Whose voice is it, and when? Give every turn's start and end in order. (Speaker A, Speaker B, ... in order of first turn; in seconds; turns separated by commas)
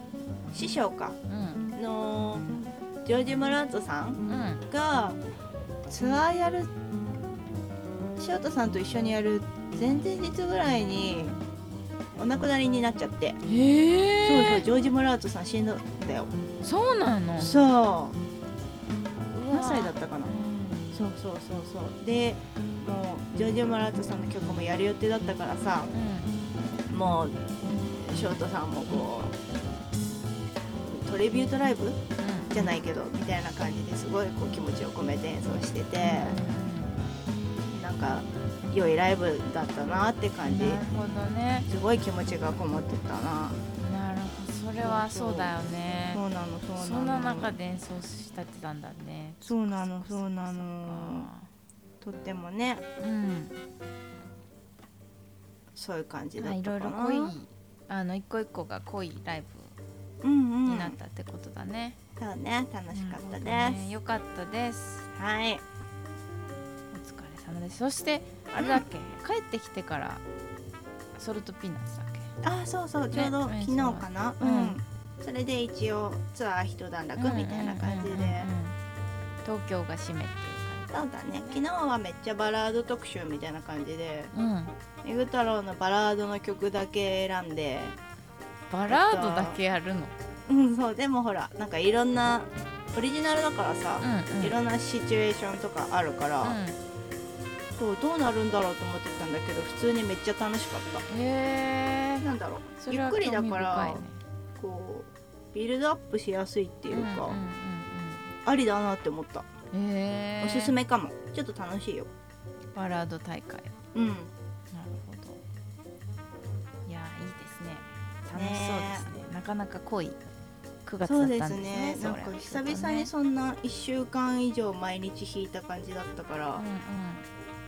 Speaker A: 0.5-1.2, Speaker B: 1.3-1.6, Speaker A: 1.7-5.2, Speaker B: 4.3-4.6, Speaker A: 5.9-6.7, Speaker A: 8.2-11.4, Speaker A: 12.2-13.4, Speaker B: 13.5-14.7, Speaker A: 14.2-16.3, Speaker B: 16.6-17.6, Speaker A: 17.4-18.2, Speaker B: 19.3-20.9, Speaker A: 19.5-20.3, Speaker A: 20.9-25.9, Speaker B: 25.9-26.3, Speaker A: 26.9-29.3, Speaker A: 30.8-36.4, Speaker B: 32.2-32.7, Speaker B: 36.0-36.9, Speaker A: 37.7-40.8, Speaker B: 40.4-41.7, Speaker A: 41.7-43.6, Speaker B: 43.8-46.2, Speaker A: 44.8-45.5, Speaker A: 46.1-47.5, Speaker B: 46.8-51.5, Speaker A: 49.4-51.3, Speaker A: 52.0-52.8, Speaker B: 53.0-53.5, Speaker A: 55.7-57.3, Speaker B: 56.4-59.7, Speaker A: 60.2-61.0, Speaker B: 60.6-62.0, Speaker A: 62.2-63.8, Speaker B: 62.9-65.1, Speaker A: 65.1-65.6, Speaker B: 66.9-70.2, Speaker A: 68.6-68.8, Speaker B: 71.2-72.3, Speaker A: 72.4-78.5, Speaker B: 73.1-74.8, Speaker B: 77.2-78.8, Speaker B: 79.4-81.6, Speaker A: 80.9-84.3, Speaker B: 84.3-84.7, Speaker A: 85.0-88.0, Speaker B: 88.7-90.1, Speaker A: 88.9-89.6, Speaker A: 90.5-96.6, Speaker B: 94.0-94.5, Speaker B: 96.4-96.8, Speaker A: 97.8-101.0, Speaker B: 101.1-102.2, Speaker A: 102.2-104.0, Speaker B: 102.8-104.2, Speaker A: 104.6-107.4, Speaker B: 106.9-108.3, Speaker A: 108.4-109.5, Speaker B: 109.7-110.7, Speaker A: 110.4-112.1, Speaker B: 112.7-113.7, Speaker A: 113.9-114.3, Speaker B: 114.7-115.4, Speaker B: 116.8-120.2, Speaker A: 118.3-119.1, Speaker B: 120.8-123.1, Speaker A: 121.0-126.6, Speaker B: 126.5-127.2